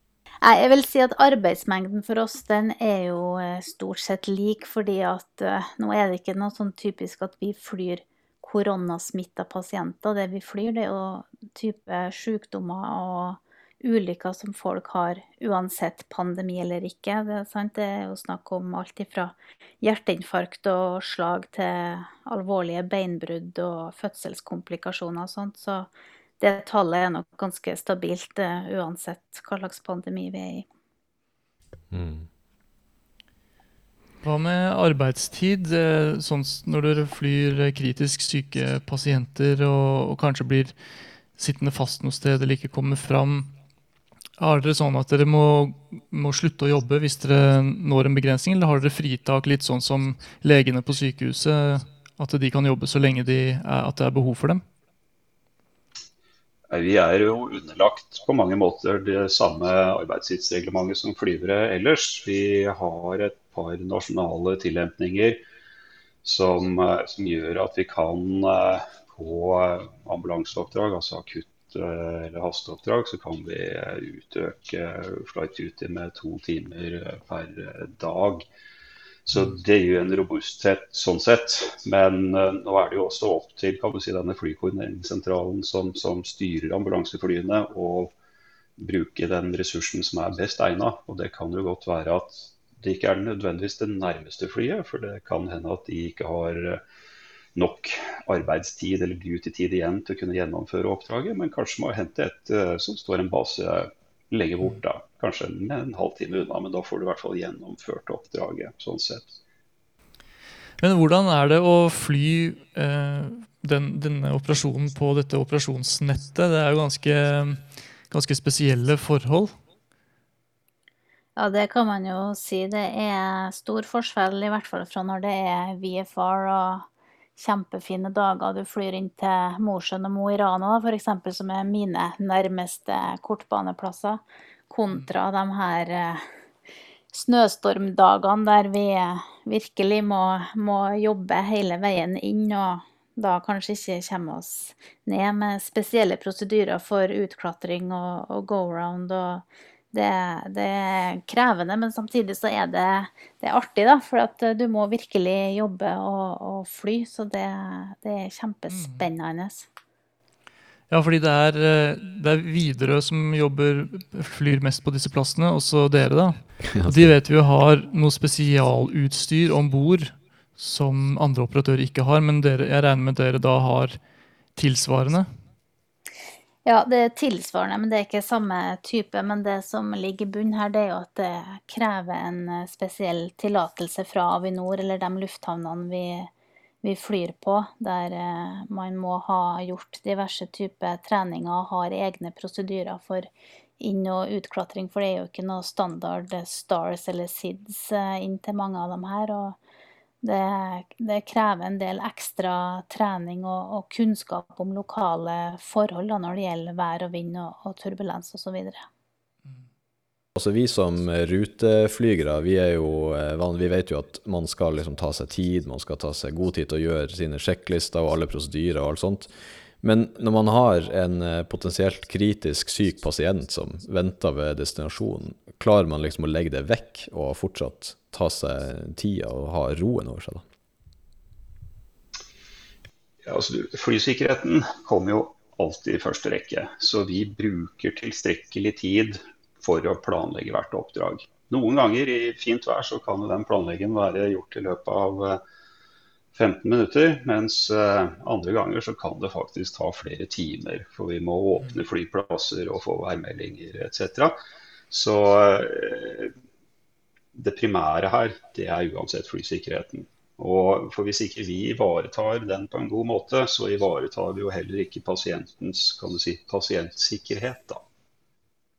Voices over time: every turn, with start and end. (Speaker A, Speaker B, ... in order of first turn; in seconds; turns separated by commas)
Speaker A: 0.4-30.7, Speaker B: 31.9-32.3, Speaker C: 34.2-43.5, Speaker C: 44.4-54.6, Speaker D: 56.7-65.4, Speaker D: 66.2-78.4, Speaker D: 79.2-88.2, Speaker D: 88.8-96.8, Speaker D: 97.5-109.3, Speaker C: 110.8-119.5, Speaker A: 121.3-136.2, Speaker A: 137.1-159.7, Speaker C: 158.7-159.1, Speaker C: 160.9-174.0, Speaker B: 166.7-167.1, Speaker C: 174.5-175.3, Speaker A: 176.6-186.3, Speaker A: 186.8-199.6, Speaker A: 200.2-208.8, Speaker B: 210.3-230.4, Speaker D: 233.2-245.4, Speaker D: 246.3-254.3, Speaker D: 254.9-256.3, Speaker D: 257.3-267.8